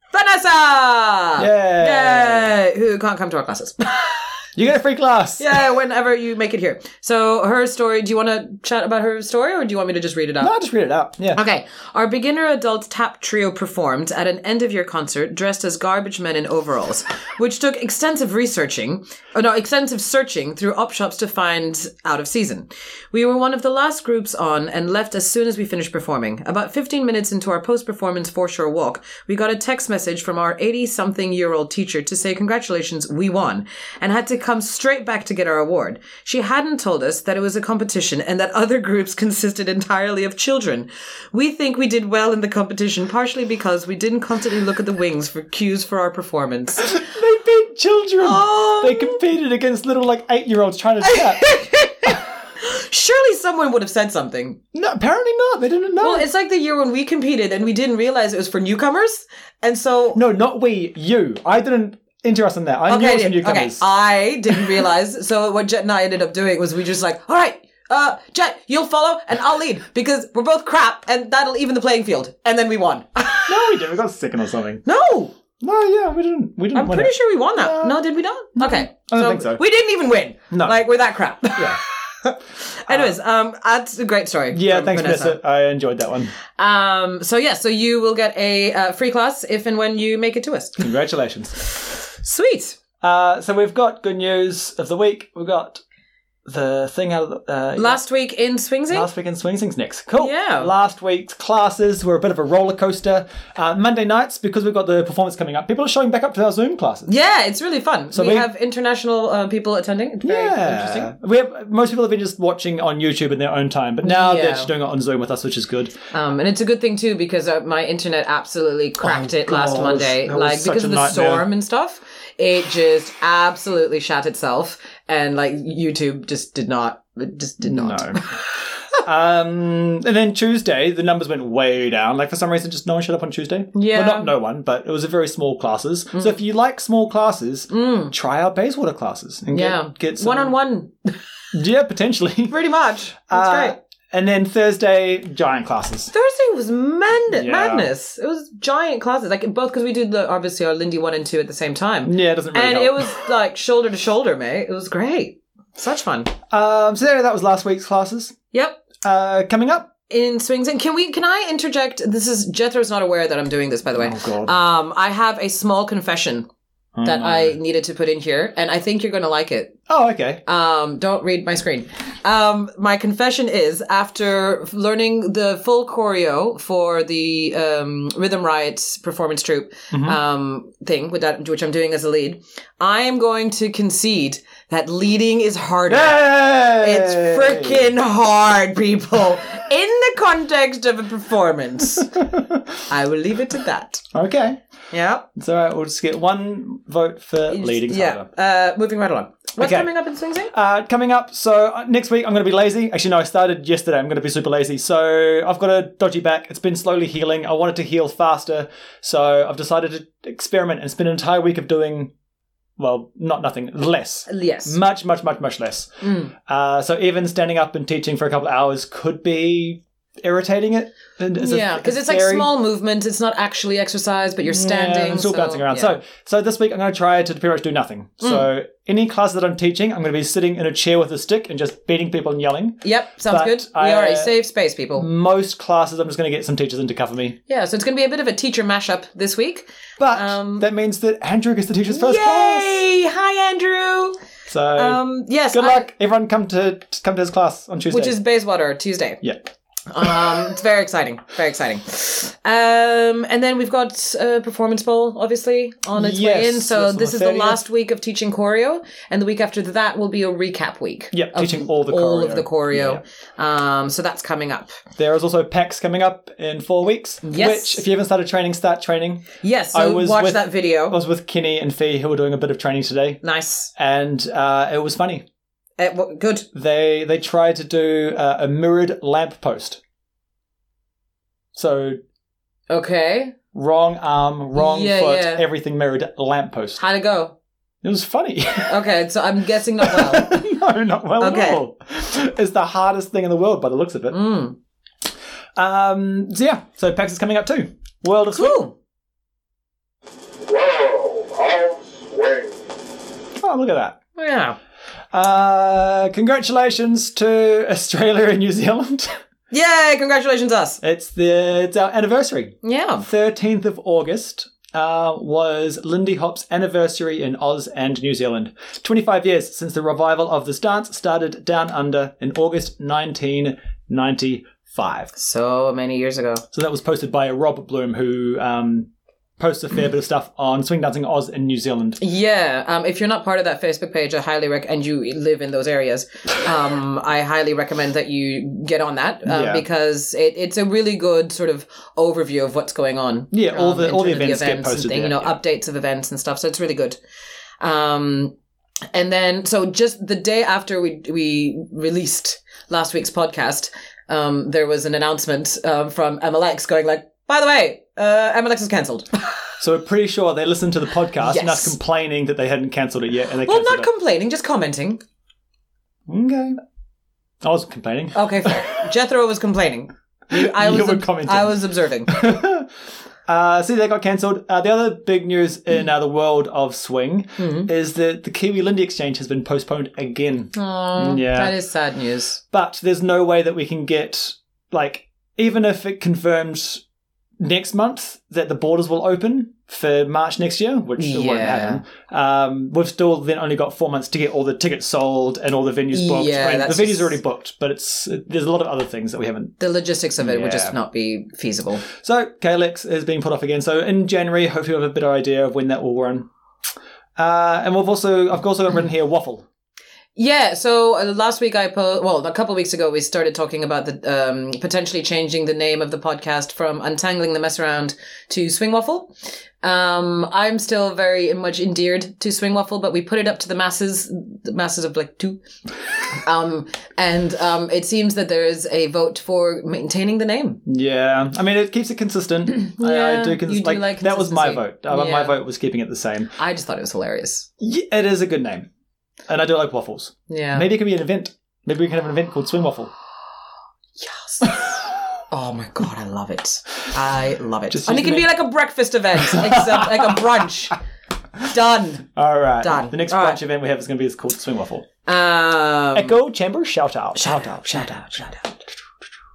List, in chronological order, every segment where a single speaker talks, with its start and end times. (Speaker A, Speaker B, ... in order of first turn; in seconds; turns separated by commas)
Speaker A: 0.1-4.5, Speaker B: 1.4-2.5, Speaker B: 4.5-5.6, Speaker A: 5.4-10.5, Speaker B: 10.4-11.4, Speaker A: 11.3-46.9, Speaker B: 46.8-51.5, Speaker A: 48.2-49.2, Speaker A: 51.0-54.6, Speaker B: 54.7-56.2, Speaker A: 56.0-60.2, Speaker B: 60.1-63.8, Speaker A: 62.9-73.6, Speaker B: 73.5-74.8, Speaker A: 74.8-75.3, Speaker B: 75.6-78.0, Speaker A: 76.7-85.4, Speaker B: 78.6-79.6, Speaker B: 80.5-80.8, Speaker B: 81.6-81.8, Speaker B: 82.9-83.2, Speaker B: 84.5-86.3, Speaker A: 86.5-90.8, Speaker B: 90.8-91.6, Speaker A: 92.1-92.8, Speaker B: 93.0-95.8, Speaker B: 96.5-98.0, Speaker A: 97.8-99.1, Speaker B: 98.9-107.1, Speaker A: 100.2-100.7, Speaker A: 107.1-111.1, Speaker B: 108.1-108.5, Speaker B: 110.2-116.0, Speaker A: 114.0-114.7, Speaker A: 116.1-128.3, Speaker B: 119.0-121.5, Speaker B: 127.6-128.3, Speaker B: 129.0-140.5, Speaker A: 133.7-134.3, Speaker A: 137.7-138.1, Speaker A: 139.5-141.2, Speaker B: 141.5-142.6, Speaker A: 142.5-143.8, Speaker B: 143.3-146.1, Speaker A: 146.1-156.3, Speaker B: 147.3-147.9, Speaker B: 152.0-153.2, Speaker B: 156.5-158.4, Speaker A: 158.5-158.8, Speaker B: 159.0-159.9, Speaker A: 160.1-166.5, Speaker B: 164.0-164.5, Speaker B: 167.0-167.6, Speaker A: 167.0-169.8, Speaker B: 169.9-170.4, Speaker A: 170.5-192.2, Speaker B: 179.9-180.2, Speaker B: 185.9-187.8, Speaker B: 192.2-192.7, Speaker A: 192.9-194.0, Speaker B: 194.1-194.6, Speaker A: 194.9-195.3, Speaker B: 195.3-198.3, Speaker A: 197.5-200.5, Speaker B: 199.6-199.9, Speaker B: 200.5-212.1, Speaker B: 212.8-222.5, Speaker A: 214.3-214.8, Speaker A: 216.0-216.3, Speaker A: 221.4-226.0, Speaker B: 224.5-234.3, Speaker A: 232.8-235.1, Speaker B: 234.9-237.4, Speaker A: 237.5-240.7, Speaker B: 240.0-242.8, Speaker A: 241.9-244.2, Speaker B: 244.5-248.2, Speaker A: 244.8-245.9, Speaker A: 247.9-249.2, Speaker A: 249.9-264.8, Speaker B: 256.0-257.6, Speaker B: 261.1-263.0, Speaker B: 265.0-273.2, Speaker A: 267.2-267.8, Speaker A: 269.4-271.0, Speaker A: 273.2-273.7, Speaker B: 273.8-275.2, Speaker A: 275.8-276.5, Speaker B: 276.5-279.8, Speaker B: 281.5-282.0, Speaker A: 282.7-283.4, Speaker B: 283.5-286.8, Speaker A: 284.5-285.4, Speaker A: 286.8-287.4, Speaker B: 287.8-288.8, Speaker A: 288.7-290.4, Speaker B: 289.8-294.2, Speaker A: 291.2-291.6, Speaker A: 294.1-294.6, Speaker B: 295.6-298.6, Speaker A: 298.3-298.7, Speaker C: 300.5-302.5, Speaker B: 303.4-304.0, Speaker A: 304.1-304.6, Speaker B: 305.1-309.2, Speaker A: 309.5-310.8, Speaker B: 310.8-325.1, Speaker A: 312.6-313.1, Speaker A: 325.1-326.4, Speaker B: 326.5-332.0, Speaker A: 332.0-347.0, Speaker B: 339.2-339.6, Speaker B: 343.3-345.4, Speaker A: 347.6-348.4, Speaker A: 348.9-359.3, Speaker B: 359.6-363.9, Speaker A: 361.2-361.8, Speaker A: 363.4-365.0, Speaker B: 366.1-366.6, Speaker B: 367.4-368.8, Speaker A: 368.1-372.1, Speaker B: 370.3-372.7, Speaker B: 373.2-381.5, Speaker A: 377.4-377.7, Speaker A: 380.5-382.4, Speaker B: 382.5-386.8, Speaker B: 387.4-399.6, Speaker A: 391.0-391.8, Speaker A: 395.9-397.2, Speaker A: 399.6-401.8, Speaker B: 400.2-400.8, Speaker B: 401.9-406.3, Speaker B: 407.2-409.4, Speaker A: 410.1-425.4, Speaker A: 426.1-430.6, Speaker B: 430.6-436.4, Speaker A: 432.6-435.4, Speaker A: 436.4-437.5, Speaker B: 437.6-438.7, Speaker B: 439.3-442.9, Speaker A: 440.3-440.6, Speaker A: 444.0-444.6, Speaker B: 444.4-444.7, Speaker A: 445.3-450.8, Speaker B: 447.7-448.3, Speaker B: 449.2-450.2, Speaker A: 451.5-452.1, Speaker B: 452.1-454.9, Speaker A: 452.6-453.4, Speaker A: 455.1-456.1, Speaker B: 455.9-457.5, Speaker A: 457.1-458.6